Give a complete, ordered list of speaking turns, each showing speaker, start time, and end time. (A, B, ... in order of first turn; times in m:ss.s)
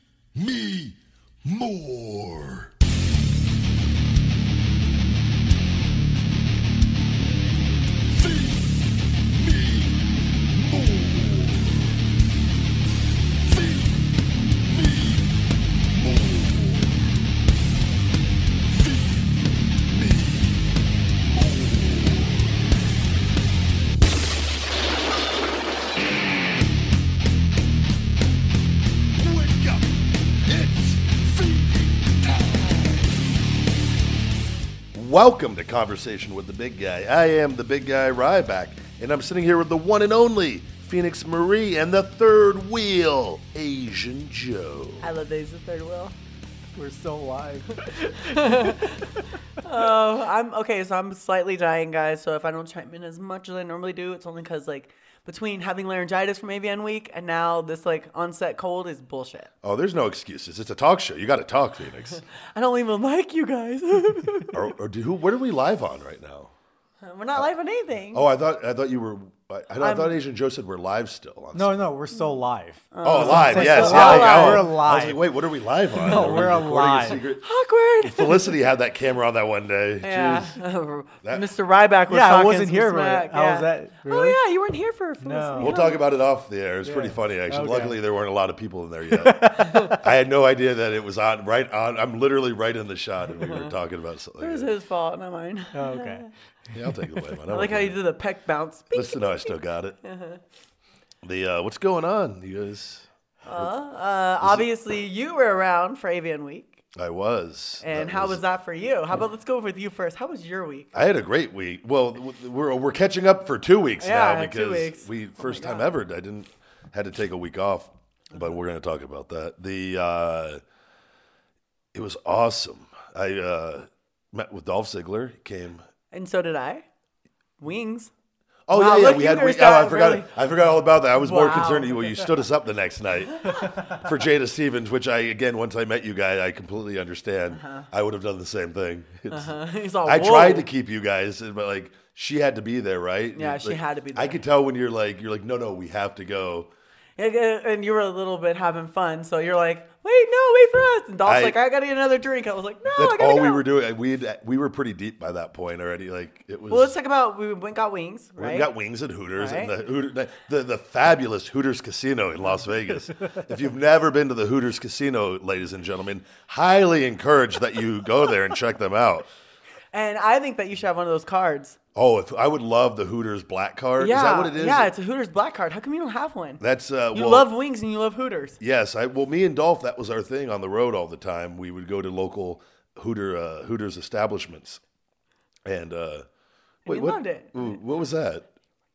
0:00.4-0:00.9 A
0:01.5-0:02.7 A
0:09.5-0:09.8 A
0:10.7-0:11.7 A
0:29.3-0:29.8 A
0:30.4-0:33.0 A
0:34.9-0:45.1 A
0:45.0-0:46.2 B
0:46.8-0:49.1 C
0:48.1-0:59.5 B
0:59.6-1:02.2 A
1:02.3-1:04.6 B
1:04.5-1:06.5 A
1:07.0-1:08.3 B
1:08.1-1:11.9 A
1:09.8-1:10.2 B
1:11.6-1:15.2 C
1:12.9-1:14.8 B
1:13.0-1:17.4 A
1:16.0-1:17.2 C
1:16.1-1:16.4 B
1:17.2-1:18.6 B
1:18.0-1:20.6 A
1:20.0-1:26.0 B
1:22.1-1:24.4 C
1:25.2-1:25.8 C
1:25.6-1:34.7 A
1:26.8-1:28.0 C
1:29.1-1:30.0 C
1:29.6-1:29.9 B
1:33.4-1:33.7 B
1:34.4-1:36.3 B
1:35.7-1:36.3 C
1:36.7-1:38.0 A
1:37.0-1:37.3 C
1:37.5-1:40.4 B
1:38.9-1:40.0 A
1:41.2-1:43.7 A
1:43.4-1:46.8 B
1:44.4-1:44.7 A
1:47.0-1:48.4 A
1:47.8-1:50.9 B
1:50.9-2:00.6 A
1:54.0-1:55.9 B
2:01.9-2:05.8 A
2:06.1-2:06.8 B
2:07.6-2:08.1 B
2:08.7-2:26.7 A
2:08.7-2:10.3 B
2:11.2-2:12.2 B
2:13.4-2:13.8 B
2:17.6-2:17.9 B
2:19.3-2:20.7 B
2:23.4-2:24.4 B
2:27.2-2:33.7 B
2:31.2-2:31.6 A
2:32.9-2:36.9 A
2:36.7-2:38.7 B
2:38.4-2:49.3 A
2:39.4-2:39.7 B
2:49.9-2:51.8 B
2:52.0-2:54.9 A
2:54.0-2:58.6 B
2:56.6-2:57.5 A
2:58.6-3:04.8 A
3:05.6-3:06.3 A
3:06.9-3:07.7 B
3:06.9-3:08.5 A